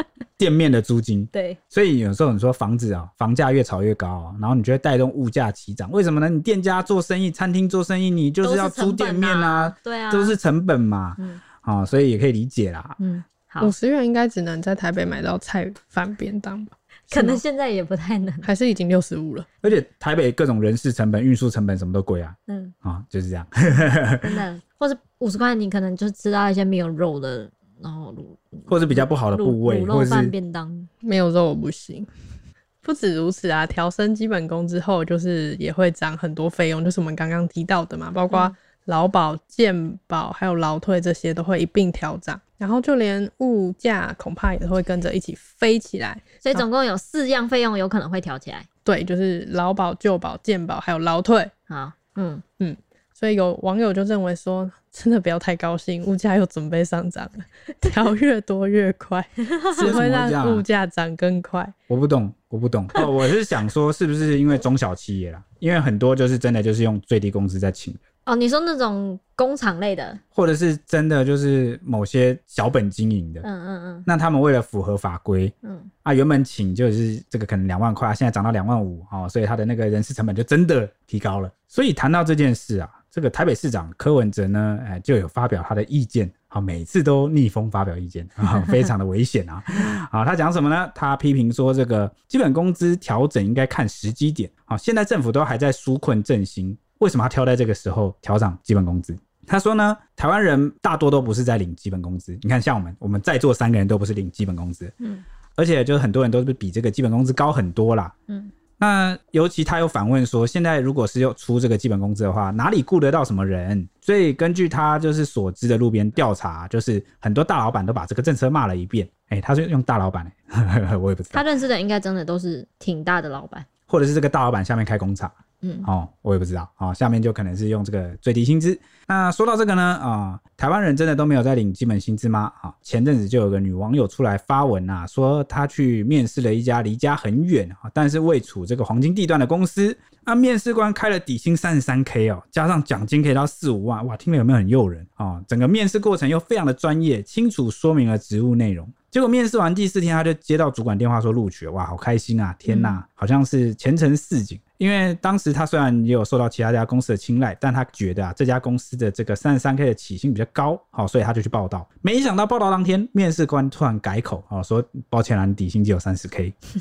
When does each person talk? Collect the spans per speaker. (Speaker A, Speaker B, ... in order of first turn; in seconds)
Speaker A: 0.4-13.0, 19.6-24.4, 28.7-30.3, 59.8-60.6, 61.9-68.0, 70.3-73.5, 74.1-104.9, 105.6-108.1, 108.8-121.4, 123.9-125.3, 125.8-166.6
Speaker B: 1.3-1.6, 8.4-10.4, 13.0-13.7, 17.1-18.5, 22.5-22.7, 24.2-30.9, 46.4-48.7, 51.7-52.4, 59.5-60.0, 68.3-70.2, 73.4-74.1, 75.6-75.9, 121.3-123.7, 125.6-125.9, 152.7-153.0
Speaker C: 13.6-17.4, 18.4-19.5, 31.0-32.1, 32.8-46.6, 48.9-51.5, 52.6-61.7